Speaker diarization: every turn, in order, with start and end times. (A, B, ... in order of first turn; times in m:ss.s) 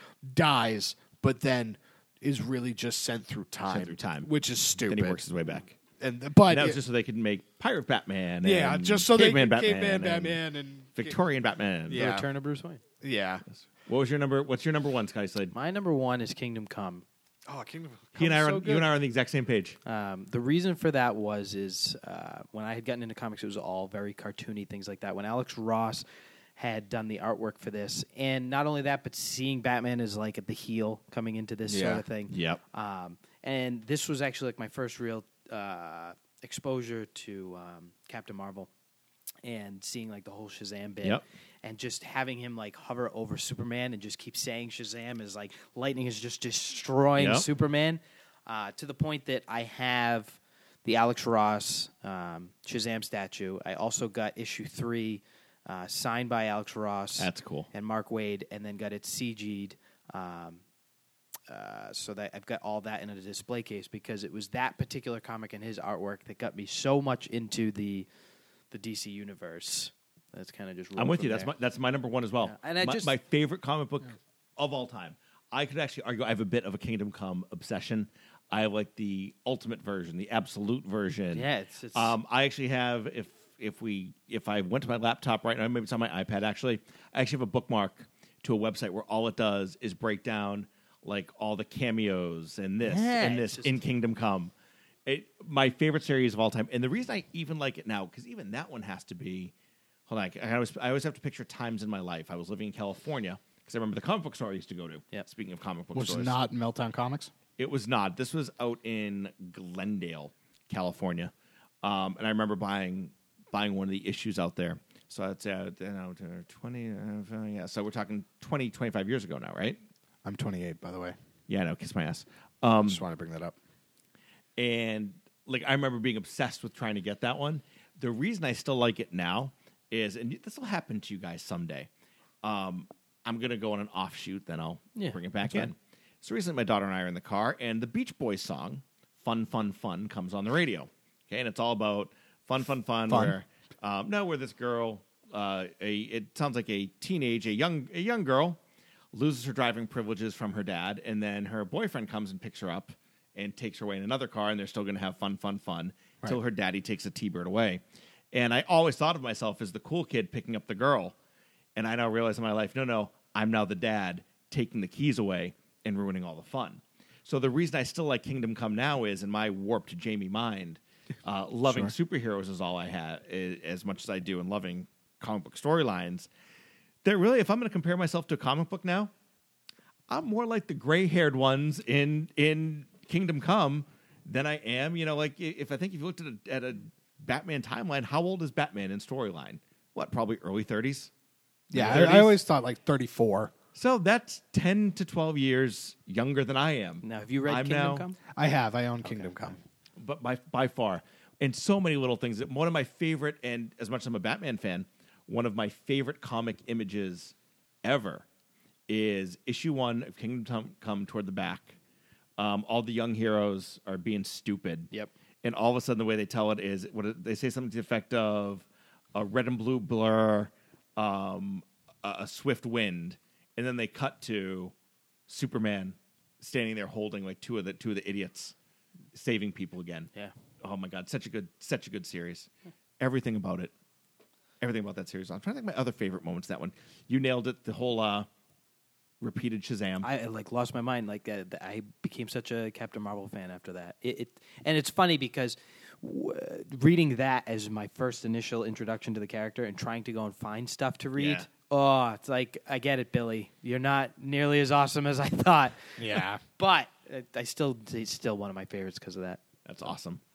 0:00.2-0:05.2 A
0:03.7-0:04.3 B
0:04.8-0:05.8 B
0:06.0-0:06.8 A
0:06.5-0:10.4 B
0:08.4-0:11.2 A
0:11.0-0:12.1 B
0:11.9-0:12.3 A
0:11.9-0:12.8 C
0:13.0-0:13.4 A
0:13.5-0:15.5 B
0:15.5-0:17.0 C
0:17.5-0:18.9 A
0:18.2-0:19.8 B
0:19.9-0:26.0 C
0:26.6-0:38.7 C
0:31.7-0:32.0 A
0:32.3-0:32.6 B
0:39.4-1:00.6 C
0:47.2-0:47.5 B
0:57.2-0:57.7 B
1:01.5-1:08.1 C
1:08.7-1:11.5 C
1:11.0-1:34.5 B
1:12.4-1:13.1 C
1:21.3-1:22.2 C
1:32.8-1:33.8 C
1:35.1-1:39.5 B
1:40.1-1:46.4 B
1:45.9-1:47.3 A
1:47.6-1:59.8 B
2:00.2-2:01.2 A
2:01.5-2:03.0 B
2:02.8-2:03.6 A
2:04.6-2:11.9 B
2:12.4-2:28.6 B
2:23.1-2:23.4 A
2:29.1-2:41.2 B
2:41.8-2:56.3 B
2:51.7-2:51.9 A
2:57.0-2:59.1 B
3:00.1-3:11.1 B
3:11.7-3:12.4 B
3:11.7-3:13.5 A
3:13.8-3:18.1 B
3:17.0-3:18.2 C
3:18.3-3:19.6 A
3:19.0-3:19.5 C
3:20.0-3:28.2 B
3:28.9-3:31.8 B
3:32.4-3:34.9 B
3:35.4-3:44.7 B
3:45.3-3:48.6 B
3:49.1-3:52.5 B
3:53.0-3:53.7 B
3:54.6-3:58.3 B
3:59.2-4:00.1 B
4:00.0-4:19.4 C
4:11.2-4:11.5 B
4:16.0-4:16.4 A
4:19.6-4:20.2 B